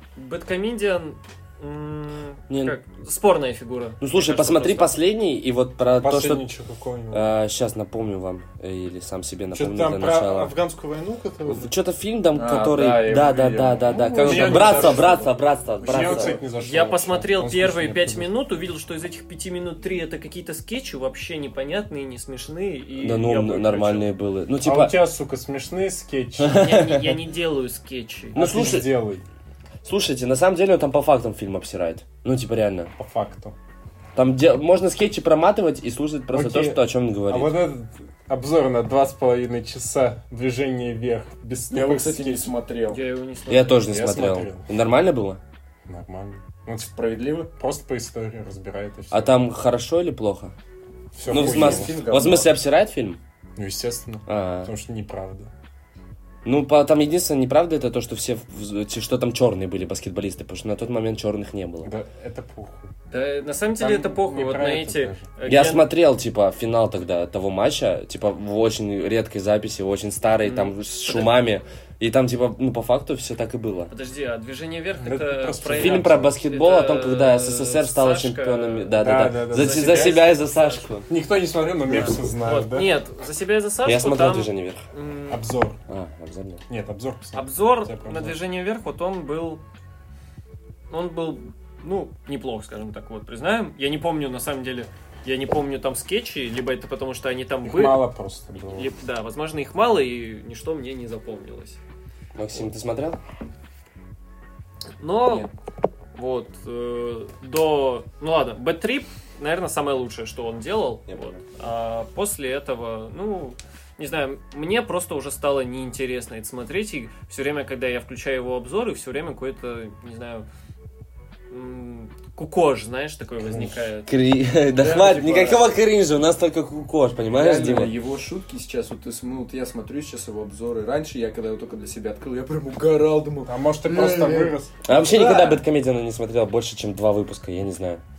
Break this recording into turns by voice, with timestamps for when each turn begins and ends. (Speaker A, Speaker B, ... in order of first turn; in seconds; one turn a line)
Speaker A: 0.1-4.9
Speaker B: 2.5-2.8
Speaker B: 4.0-6.4
Speaker C: 6.0-7.3
Speaker B: 7.1-10.5
Speaker C: 9.5-11.7
Speaker B: 11.5-16.4
Speaker D: 12.3-16.4
Speaker C: 14.2-15.3
Speaker C: 15.8-18.3
Speaker A: 16.6-24.1
Speaker B: 23.0-25.0
Speaker C: 24.6-26.8
Speaker B: 26.4-27.1
Speaker A: 26.5-28.4
Speaker B: 28.3-28.9
Speaker C: 28.3-29.2
Speaker B: 29.8-32.9
Speaker C: 33.0-33.5
Speaker B: 34.1-37.5
Speaker C: 36.3-42.5
Speaker D: 41.7-43.0
Speaker A: 42.9-43.8
Speaker B: 43.5-45.4
Speaker C: 43.8-44.7
Speaker C: 45.9-46.9
Speaker D: 46.9-47.5
Speaker C: 47.5-49.4
Speaker B: 49.1-50.5
Speaker C: 51.1-52.0
Speaker B: 51.3-53.2
Speaker D: 51.3-52.5
Speaker C: 53.5-55.5
Speaker B: 54.3-54.7
Speaker B: 56.4-61.9
Speaker C: 61.8-62.9
Speaker A: 63.1-65.9
Speaker C: 63.7-65.3
Speaker B: 65.5-73.9
Speaker A: 70.4-71.3
Speaker A: 73.9-79.0
Speaker C: 75.0-76.4
Speaker B: 75.7-81.1
Speaker C: 79.0-80.3
Speaker A: 79.5-80.9
Speaker C: 81.1-82.9
Speaker A: 81.9-85.4
Speaker B: 83.8-84.8
Speaker C: 85.3-85.8
Speaker B: 85.9-86.6
Speaker C: 86.7-88.4
Speaker A: 87.3-89.6
Speaker A: 90.9-98.0
Speaker C: 97.6-98.9
Speaker A: 98.7-101.8
Speaker B: 102.3-103.2
Speaker A: 105.0-105.5
Speaker D: 105.3-105.5
Speaker A: 106.1-120.5
Speaker B: 111.1-111.4
Speaker A: 121.5-124.1
Speaker C: 123.4-123.7
Speaker B: 124.0-127.9
Speaker D: 124.7-125.6
Speaker D: 127.3-135.6
Speaker C: 133.5-134.7
Speaker B: 134.8-138.0